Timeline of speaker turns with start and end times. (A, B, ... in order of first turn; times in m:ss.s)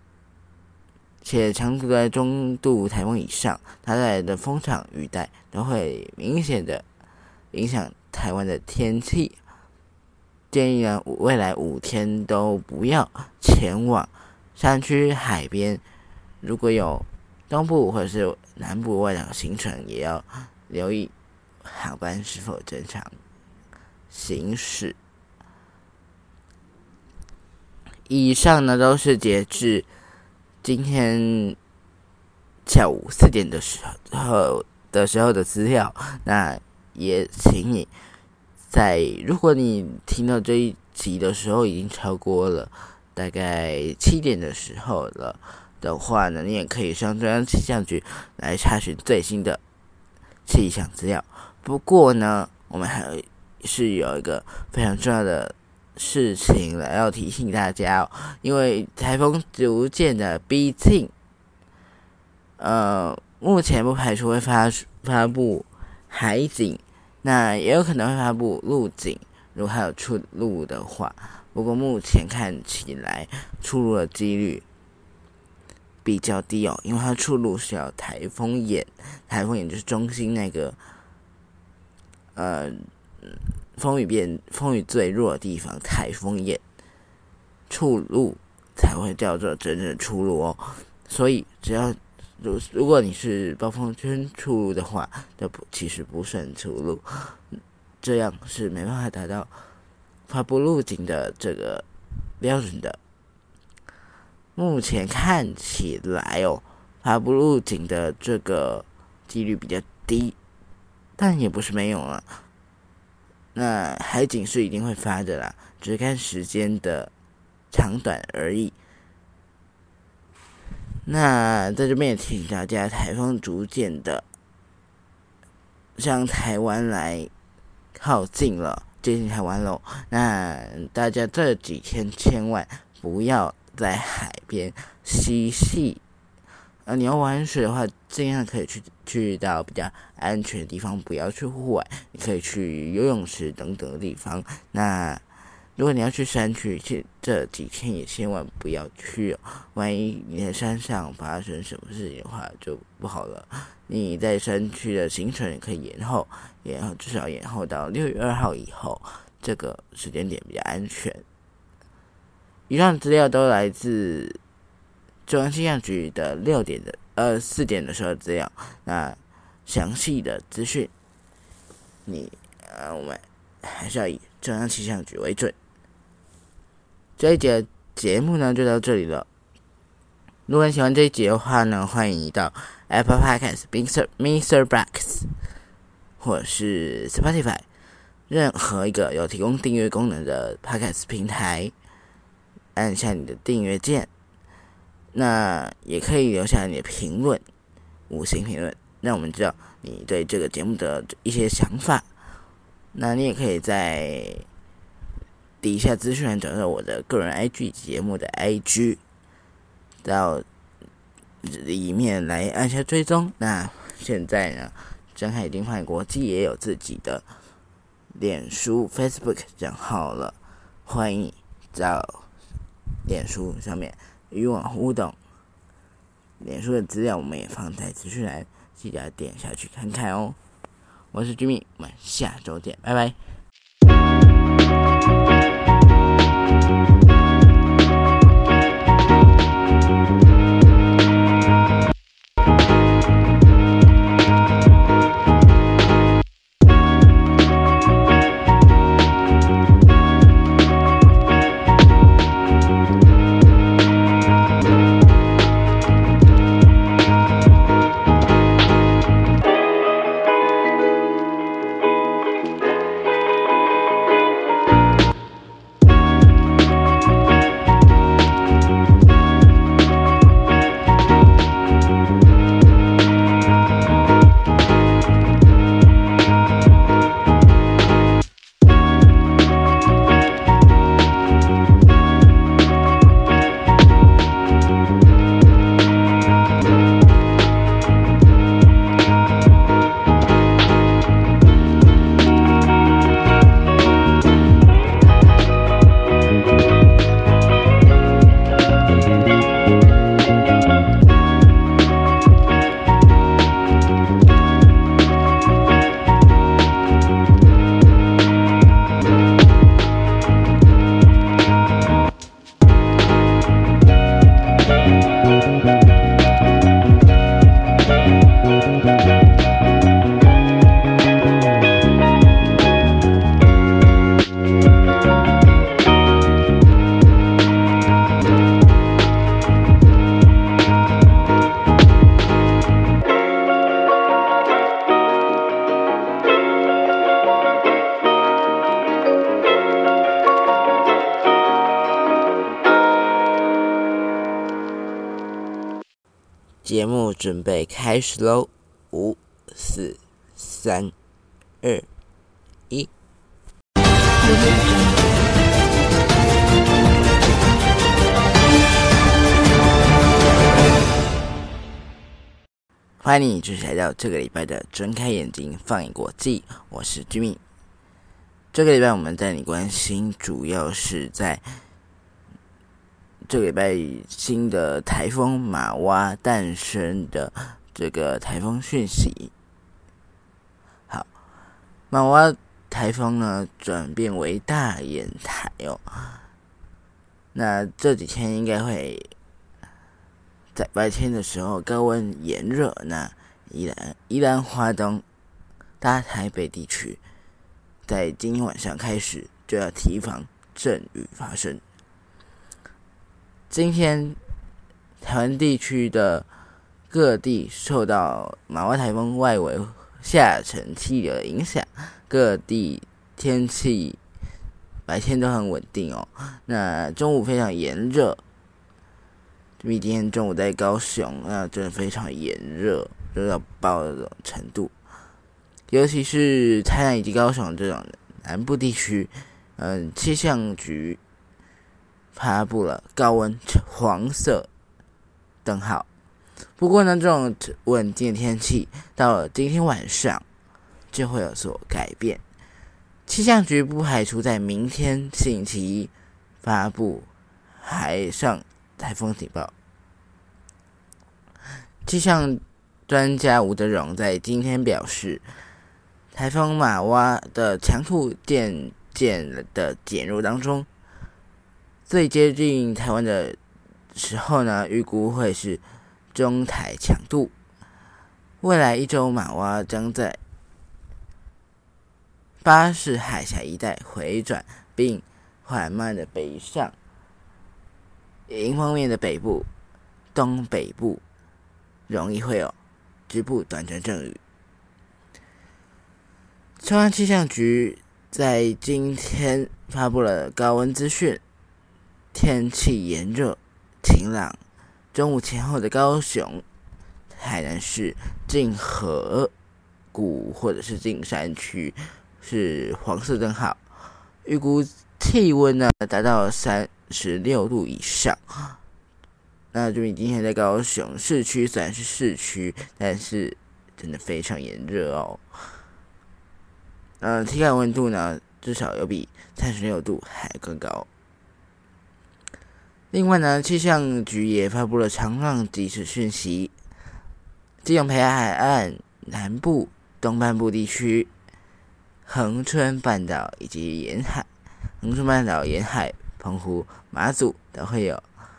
0:01.2-0:06.8 A
0:07.5-0:09.4 A
0:10.5-0:15.8 A
0:16.4-0:21.1 A
0:21.6-0:23.1 A
0:24.1-0:25.0 A
0:28.1-0:29.9 A
0:30.6-0:31.6 A
0:32.7-0:37.9 A
0:38.7-0:49.6 A
0:50.5-1:01.1 A
1:02.6-1:14.6 A
1:16.0-1:20.8 A
1:22.4-1:26.6 A
1:27.7-1:37.4 A
1:38.0-1:39.5 A
1:40.3-1:41.9 A
1:42.4-1:43.0 A
1:44.6-1:50.4 A
1:51.2-1:52.3 A
1:53.6-1:57.1 A
1:57.7-1:58.8 A
2:01.1-2:04.3 A
2:06.0-2:07.3 A
2:08.0-2:16.0 A
2:16.8-2:25.2 A
2:25.8-2:41.2 A
2:42.7-2:44.4 A
2:45.3-2:50.9 A
2:52.1-2:55.5 A
2:57.2-2:59.3 A
3:00.5-3:05.3 A
3:06.2-3:07.6 A
3:08.3-3:11.7 A
3:12.8-3:14.1 A
3:15.1-3:17.4 A
3:18.1-3:22.1 A
3:22.9-3:24.5 A
3:25.6-3:29.0 A
3:30.0-3:30.4 A
3:31.4-3:37.2 A
3:38.2-3:42.3 A
3:43.1-3:45.2 A
3:46.4-3:50.4 A
3:51.1-3:53.2 A
5:46.6-5:51.0 A
5:51.6-5:51.9 A
6:03.0-6:07.4 A
6:08.5-6:11.4 A
6:13.3-6:19.3 A
6:21.9-6:26.2 A
6:27.3-6:29.1 A
6:30.6-6:35.0 A
6:35.8-6:37.0 A
6:37.9-6:41.6 A
6:43.5-6:44.2 A
6:45.0-6:46.3 A
6:46.9-6:54.0 A
6:54.9-6:58.2 A
6:59.6-7:04.7 A
7:05.7-7:11.0 A
7:12.2-7:14.5 A
7:15.4-7:15.9 A
7:16.6-7:20.2 A
7:20.9-7:22.2 A
7:23.1-7:25.9 A
7:26.4-7:29.5 A
7:31.8-7:35.2 A
7:36.1-7:40.7 A
7:41.9-7:43.4 A
7:43.9-7:45.6 A
7:46.1-7:47.3 A
7:48.4-7:50.2 A
7:52.4-7:56.8 A
7:58.3-7:59.5 A
8:00.1-8:01.0 A
8:01.9-8:02.6 A
8:03.1-8:04.2 A
8:06.6-8:11.2 A
8:12.1-8:14.4 A
8:14.9-8:16.4 A
8:17.1-8:19.3 A
8:19.9-8:23.6 A
8:24.2-8:28.6 A
8:29.5-8:35.2 A
8:37.0-8:40.9 A
8:42.9-8:46.5 A
8:47.6-8:51.1 A
8:52.1-8:54.3 A
8:54.8-8:58.0 A